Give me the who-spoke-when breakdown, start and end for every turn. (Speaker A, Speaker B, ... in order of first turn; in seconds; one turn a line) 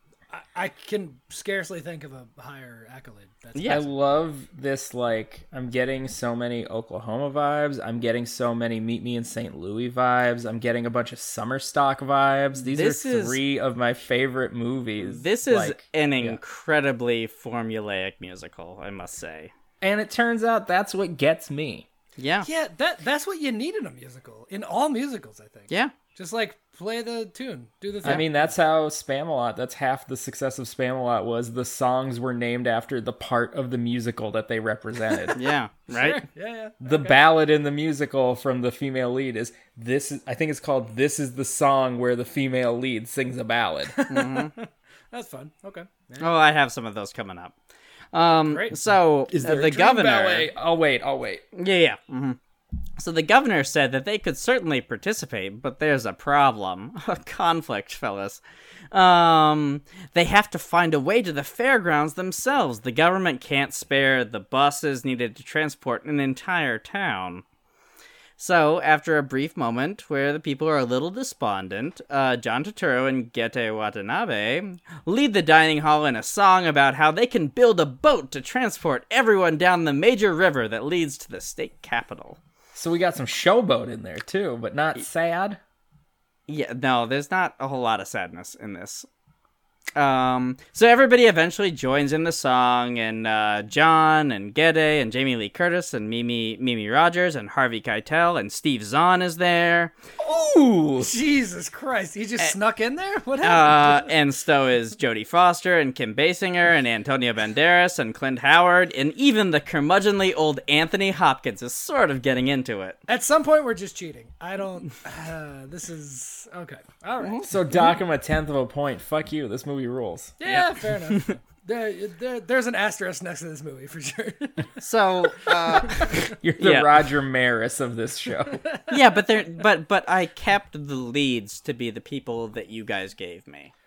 Speaker A: 0.3-3.9
Speaker B: 3.5-3.8
Speaker C: 3.7-16.4
Speaker B: 12.7-13.4
Speaker B: 15.0-19.5
Speaker C: 19.8-21.9
Speaker B: 22.2-22.5
Speaker A: 22.4-28.5
Speaker C: 28.0-35.4
Speaker B: 35.4-36.2
Speaker A: 35.9-37.2
Speaker C: 36.8-44.0
Speaker A: 43.9-46.4
Speaker B: 44.1-44.5
Speaker B: 46.2-47.5
Speaker B: 48.1-50.5
Speaker A: 48.5-48.8
Speaker C: 49.3-51.4
Speaker B: 51.5-52.4
Speaker B: 53.0-67.4
Speaker B: 68.4-82.4
Speaker C: 82.7-85.6
Speaker B: 86.5-89.1
Speaker B: 90.0-99.9
Speaker C: 100.2-101.1
Speaker A: 101.0-104.1
Speaker B: 103.4-113.0
Speaker A: 113.1-117.5
Speaker B: 117.2-117.5
Speaker C: 117.4-120.7
Speaker A: 120.4-126.4
Speaker B: 124.8-126.9
Speaker C: 126.4-128.6
Speaker A: 128.5-129.0
Speaker B: 128.9-133.7